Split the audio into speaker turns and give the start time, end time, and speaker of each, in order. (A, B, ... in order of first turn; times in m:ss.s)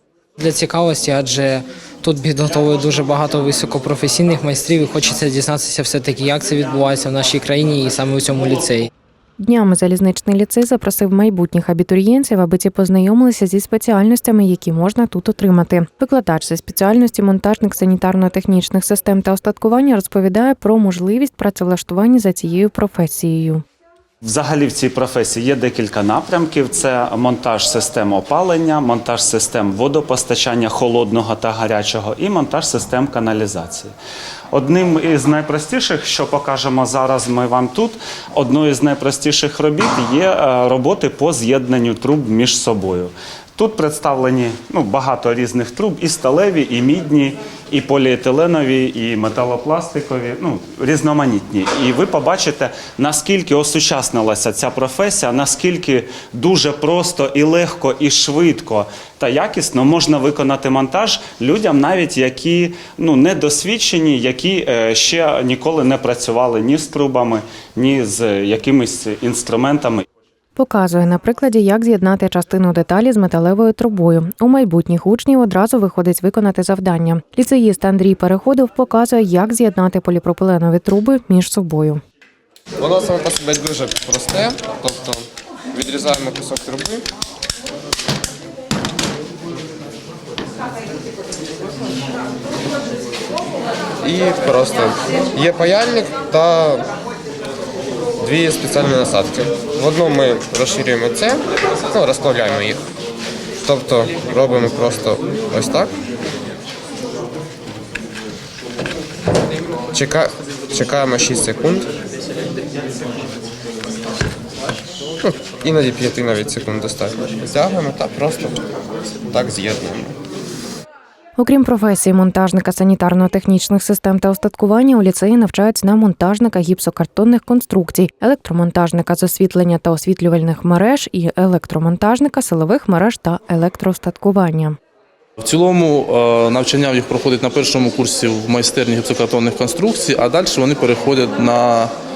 0:00.4-0:08.9 A
0:09.4-0:23.6 B
0:24.2-0:33.9 C
0:34.5-1:10.0 C
1:10.6-1:22.0 B
1:22.8-1:27.0 D
1:34.0-1:36.9 D
1:38.2-1:41.4 D
1:41.9-1:42.8 D
1:43.6-1:45.9 D
1:49.9-1:51.9 D
1:55.2-1:58.6 D
1:59.3-2:00.2 D
2:01.4-2:14.8 B
2:15.4-2:21.9 E